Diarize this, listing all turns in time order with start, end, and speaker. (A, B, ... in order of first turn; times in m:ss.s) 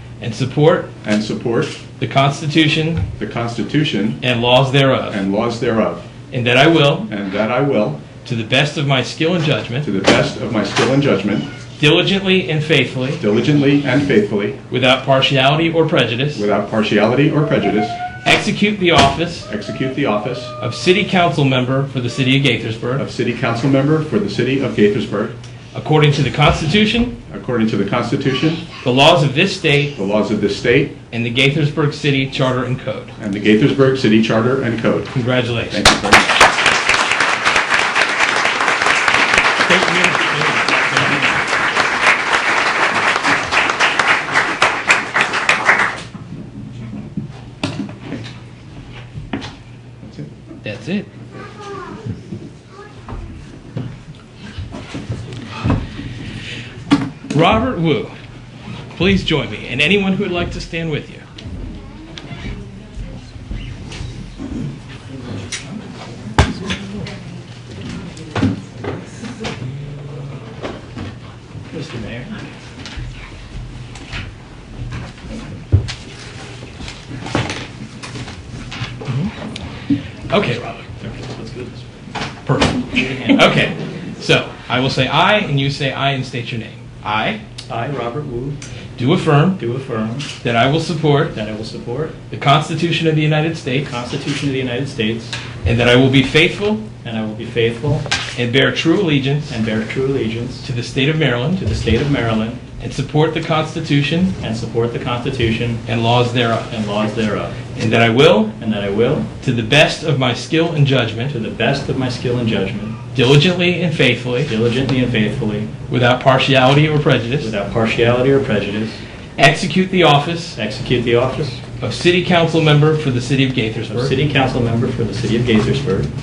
0:00.2-0:00.9 A
0:01.0-0:01.8 B
0:02.0-0:03.1 A
0:03.2-0:04.2 B
0:04.2-0:05.2 A
0:05.1-0:06.1 B
0:06.3-0:07.1 A
0:07.0-0:08.1 B
0:08.2-0:09.9 A
0:09.8-0:11.5 B
0:11.8-0:13.2 A
0:13.2-0:14.6 B
0:14.7-0:16.5 A
0:16.3-0:18.0 B
0:18.2-0:19.5 A
0:19.5-0:20.5 B
0:20.6-0:23.0 A
0:23.0-0:25.3 B
0:25.7-0:27.2 A
0:27.3-0:28.7 B
0:28.8-0:30.0 A
0:30.0-0:31.0 B
0:31.1-0:33.1 A
0:33.2-0:35.1 B
0:35.1-0:35.8 A
0:35.7-0:36.3 B
0:39.6-0:41.1 A
0:50.6-0:51.1 A
0:57.3-0:58.1 A
0:58.9-1:01.2 A
1:11.7-1:12.4 C
1:20.3-1:20.9 A
1:21.0-1:21.9 C
1:22.4-1:27.4 A
1:22.9-1:23.3 C
1:27.7-1:28.6 C
1:29.0-1:29.6 A
1:29.6-1:30.3 C
1:30.4-1:31.3 A
1:31.3-1:32.2 C
1:32.3-1:34.0 A
1:33.8-1:35.4 C
1:35.6-1:36.9 A
1:37.0-1:38.1 C
1:38.4-1:39.6 A
1:39.5-1:40.7 C
1:40.6-1:41.6 A
1:41.6-1:42.6 C
1:42.8-1:44.3 A
1:44.4-1:45.8 C
1:45.8-1:46.7 A
1:46.7-1:47.7 C
1:47.7-1:48.5 A
1:48.6-1:49.3 C
1:49.4-1:51.3 A
1:51.3-1:53.0 C
1:53.1-1:54.5 A
1:54.4-1:55.7 C
1:55.9-1:57.5 A
1:57.4-1:59.0 C
1:59.4-2:00.6 A
2:00.6-2:01.6 C
2:01.8-2:04.1 A
2:03.9-2:06.1 C